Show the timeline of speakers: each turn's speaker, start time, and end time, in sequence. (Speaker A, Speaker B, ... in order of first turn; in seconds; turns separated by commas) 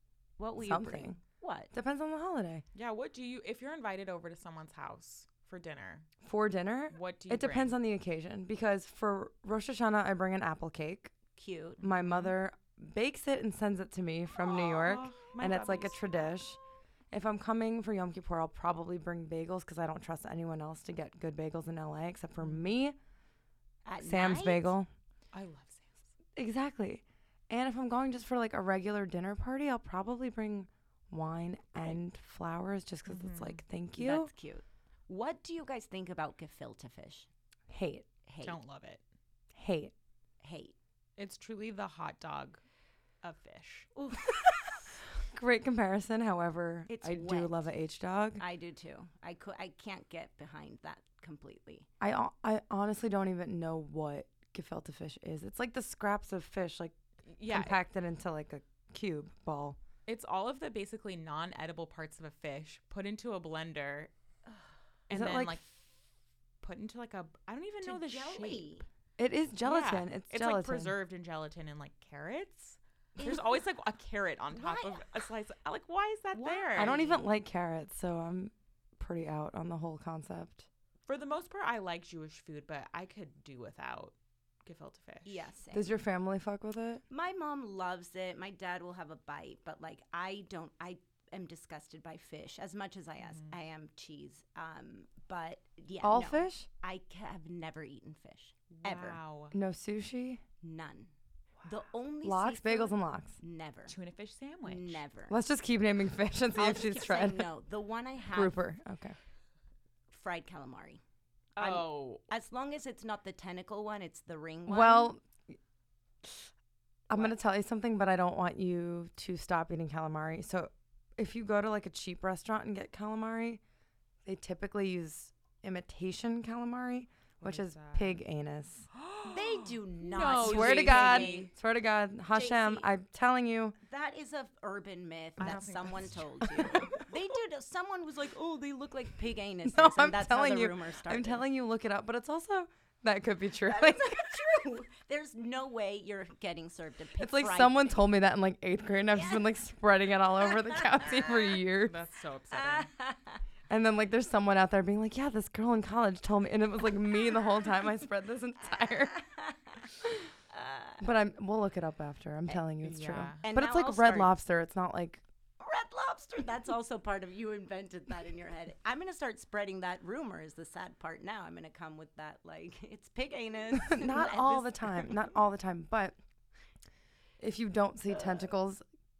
Speaker A: 0.4-1.7, Speaker B: 0.6-1.2, Speaker B: 1.7-2.6, Speaker C: 2.7-6.1, Speaker B: 6.2-11.1, Speaker C: 6.9-7.8, Speaker A: 11.3-11.8, Speaker C: 11.8-12.3, Speaker B: 11.8-16.6, Speaker C: 14.4-16.3, Speaker B: 17.1-22.9, Speaker C: 22.4-22.7, Speaker A: 23.8-24.7, Speaker B: 24.0-24.9, Speaker C: 25.3-26.1, Speaker B: 26.4-34.3, Speaker C: 33.1-33.6, Speaker A: 34.0-37.3, Speaker B: 37.7-38.1, Speaker A: 38.3-38.6, Speaker C: 38.4-39.0, Speaker B: 39.5-39.9, Speaker A: 40.4-40.7, Speaker C: 41.2-42.6, Speaker C: 43.2-43.9, Speaker A: 44.0-44.9, Speaker B: 45.3-48.4, Speaker A: 46.9-47.7, Speaker A: 48.4-51.9, Speaker B: 52.0-59.8, Speaker C: 57.3-57.8, Speaker C: 60.1-64.1, Speaker C: 65.1-65.8, Speaker B: 65.1-65.6, Speaker C: 66.6-68.7, Speaker A: 67.8-68.8, Speaker B: 69.2-70.9, Speaker C: 69.6-77.0, Speaker A: 73.2-73.6, Speaker A: 74.5-75.2, Speaker A: 76.3-77.2, Speaker B: 76.8-80.7, Speaker C: 81.1-84.1, Speaker C: 84.7-85.4, Speaker A: 85.2-85.9, Speaker B: 85.7-87.0, Speaker A: 87.1-99.2, Speaker C: 93.2-93.5, Speaker B: 96.0-96.7, Speaker C: 98.7-99.5, Speaker B: 99.5-100.4, Speaker A: 100.6-101.1, Speaker A: 101.6-103.9, Speaker B: 102.2-103.4, Speaker C: 103.9-105.0, Speaker A: 104.7-105.4, Speaker B: 105.3-107.5, Speaker A: 106.5-108.5, Speaker B: 108.3-109.2, Speaker A: 110.1-111.0, Speaker C: 111.5-112.2, Speaker A: 111.6-115.1, Speaker B: 114.7-115.2, Speaker B: 117.1-123.6, Speaker B: 124.2-128.9, Speaker C: 127.4-128.2, Speaker C: 128.9-131.5, Speaker A: 129.2-131.5, Speaker B: 130.2-133.8, Speaker A: 132.3-132.9, Speaker A: 133.8-141.4, Speaker C: 135.4-137.0, Speaker B: 136.6-137.0, Speaker B: 139.6-144.4, Speaker A: 143.6-148.0, Speaker B: 147.2-152.0, Speaker A: 149.1-149.4, Speaker A: 150.5-151.6, Speaker C: 151.8-152.9, Speaker A: 152.5-153.4, Speaker B: 153.7-159.1, Speaker A: 158.7-159.9, Speaker A: 160.5-161.1, Speaker B: 161.0-165.2, Speaker C: 162.8-163.4, Speaker A: 163.4-164.3, Speaker A: 165.6-175.3, Speaker B: 173.8-176.2, Speaker B: 177.4-178.8